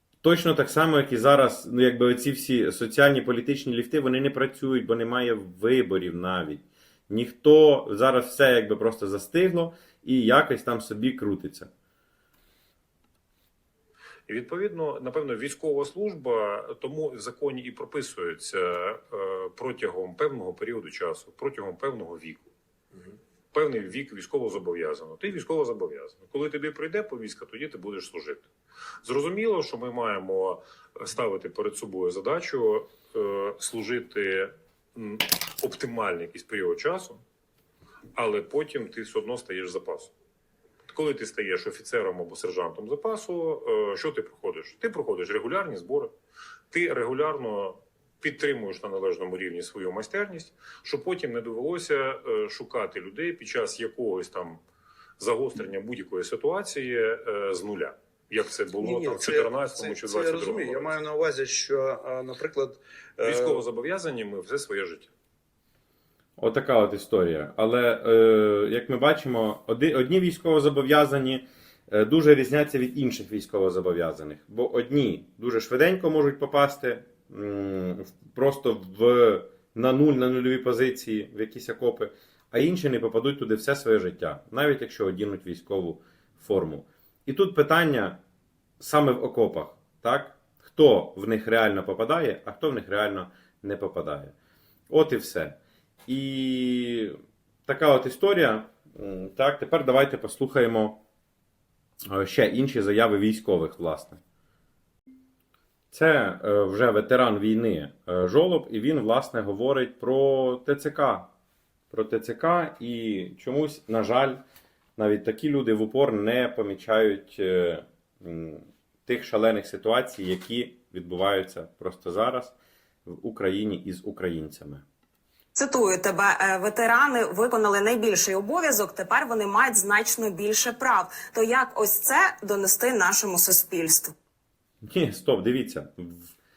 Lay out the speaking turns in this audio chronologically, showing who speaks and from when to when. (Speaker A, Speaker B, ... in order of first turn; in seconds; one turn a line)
Speaker A: 0.2-11.7
Speaker B: 14.3-22.5
Speaker B: 23.5-28.5
Speaker B: 29.0-37.2
Speaker B: 38.2-40.1
Speaker B: 40.9-46.1
Speaker B: 46.7-54.6
Speaker B: 55.2-61.0
Speaker C: 58.8-63.6
Speaker B: 63.2-65.1
Speaker A: 66.4-88.2
Speaker A: 88.8-94.3
Speaker A: 94.9-101.0
Speaker A: 102.1-104.2
Speaker A: 105.9-111.3
Speaker A: 111.9-114.4
Speaker A: 115.0-122.5
Speaker A: 123.1-124.8
Speaker D: 125.6-134.1
Speaker A: 134.9-136.2